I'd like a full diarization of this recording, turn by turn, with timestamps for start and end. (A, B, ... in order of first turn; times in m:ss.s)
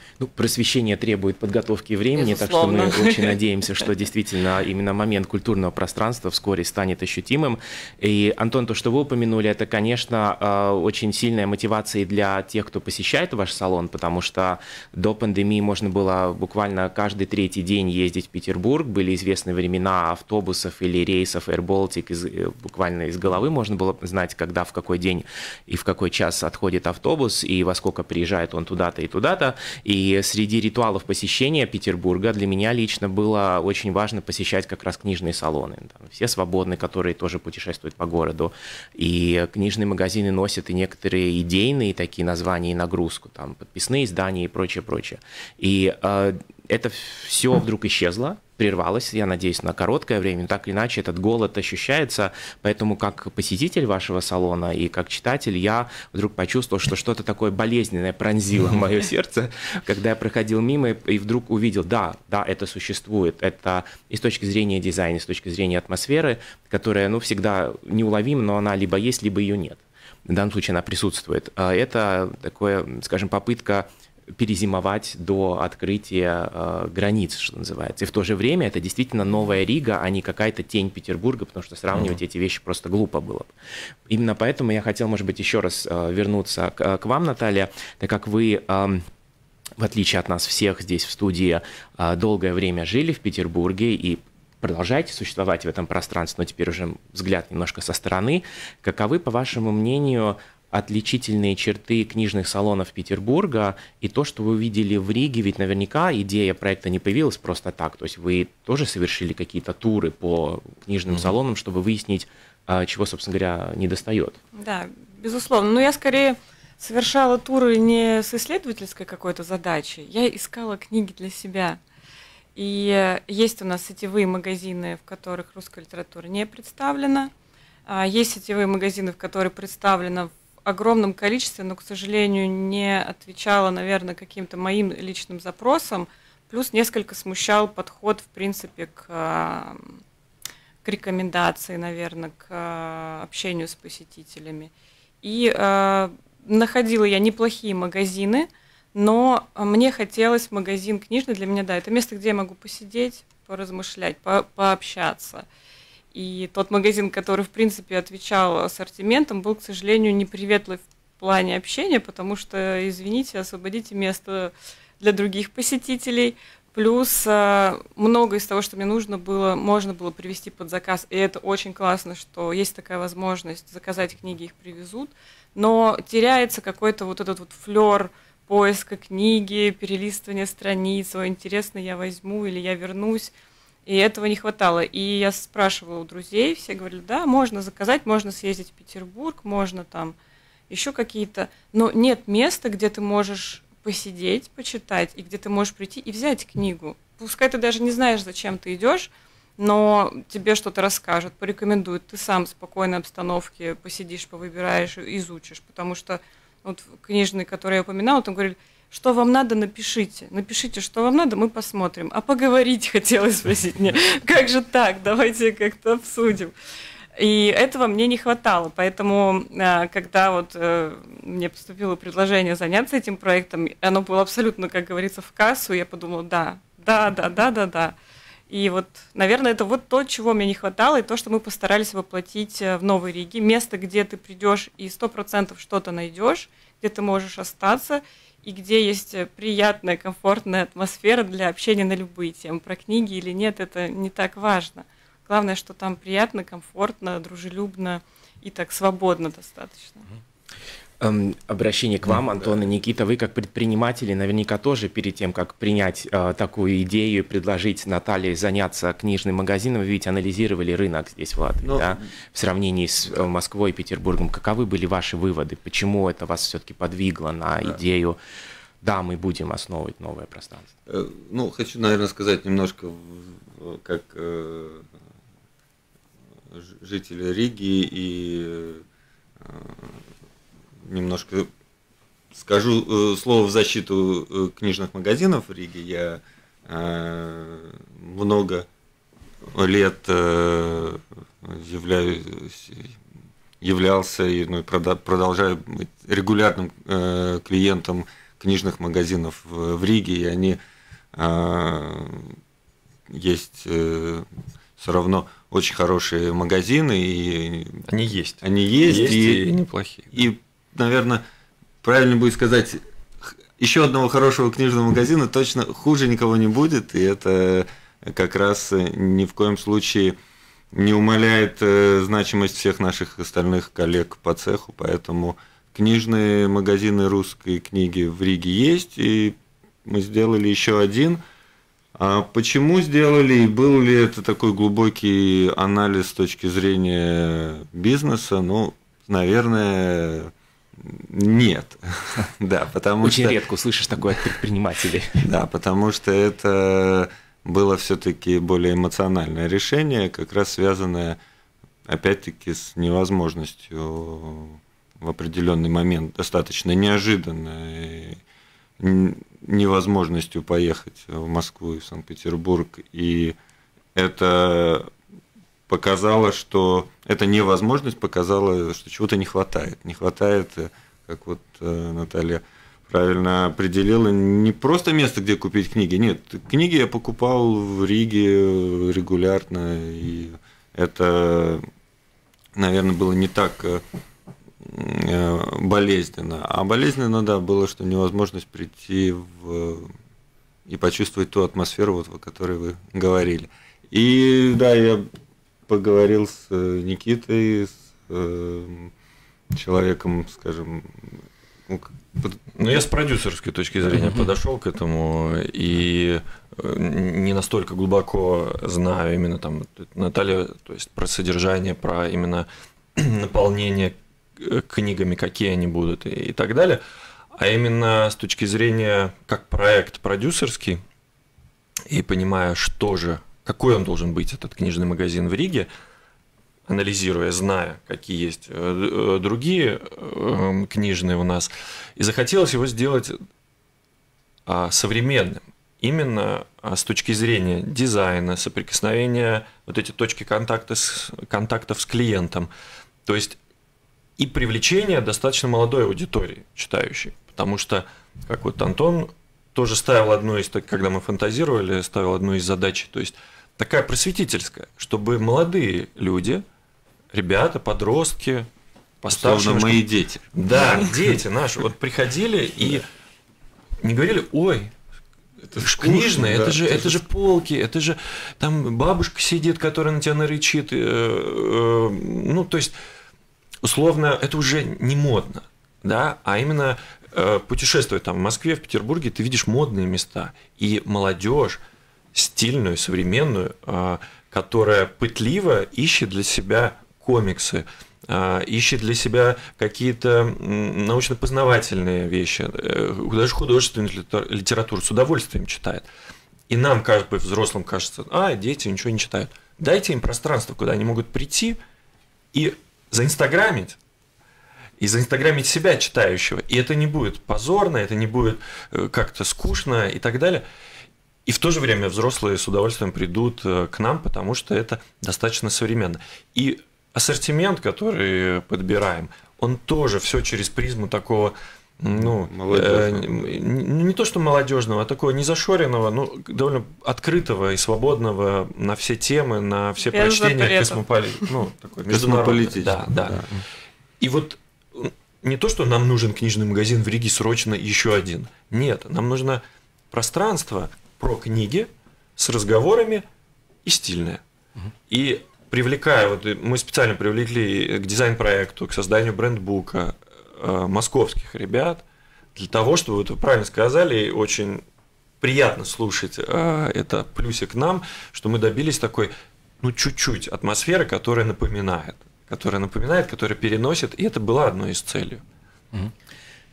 0:00.2-1:23.5 A
0:02.1-0:03.4 B
1:21.9-1:22.2 C
1:24.1-1:29.0 A
1:29.8-1:54.4 A
1:54.6-2:01.8 B
2:02.6-2:07.3 B
2:07.9-2:19.9 B
2:20.8-2:35.4 B
2:36.1-3:03.3 B
3:03.8-3:10.1 B
3:10.7-3:36.5 B
3:37.2-3:47.9 B
3:48.5-4:10.0 B
4:11.0-4:28.2 A
4:21.6-4:22.0 D
4:28.8-4:30.7 A
4:30.9-4:34.8 D
4:36.5-4:38.8 D
4:39.4-4:40.0 D
4:40.8-4:41.5 D
4:42.3-4:48.6 D
4:49.5-4:52.9 D
4:53.6-5:00.6 D
5:01.1-5:02.3 D
5:03.1-5:04.2 D
5:04.8-5:07.8 D
5:07.9-5:10.2 C
5:08.4-5:09.4 D
5:10.1-5:11.2 D
5:11.8-5:12.8 D
5:13.6-5:20.1 D
5:20.7-5:31.2 D
5:32.0-5:43.4 D
5:43.0-5:45.3 A
5:45.2-5:51.2 D
5:51.8-5:58.2 D
5:58.8-6:03.4 D
6:03.9-6:04.9 D
6:05.7-6:21.6 D
6:22.6-6:23.8 D
6:24.6-6:29.9 D
6:30.7-6:35.1 D
6:35.7-6:38.9 D
6:39.5-6:42.4 D
6:42.5-6:56.8 C
6:57.3-7:00.8 C
7:01.9-7:05.7 C
7:06.7-7:13.2 C
7:14.4-7:22.5 C
7:23.0-7:23.4 C
7:24.2-7:36.4 C
7:37.1-7:38.5 C
7:39.0-7:42.8 C
7:39.1-7:41.0 D
7:43.8-7:44.7 C
7:45.5-7:52.7 C
7:45.5-7:47.0 D
7:53.6-8:01.6 C
8:02.1-8:15.9 C
8:16.5-8:21.6 C
8:22.3-8:23.8 C
8:24.8-8:30.4 C
8:31.2-8:53.3 C
8:42.0-8:43.3 D
8:49.8-8:51.3 B
8:51.9-8:53.3 D
8:54.0-9:03.0 C
9:03.6-9:04.2 C
9:04.9-9:11.8 C
9:12.4-9:14.6 C
9:15.2-9:25.2 C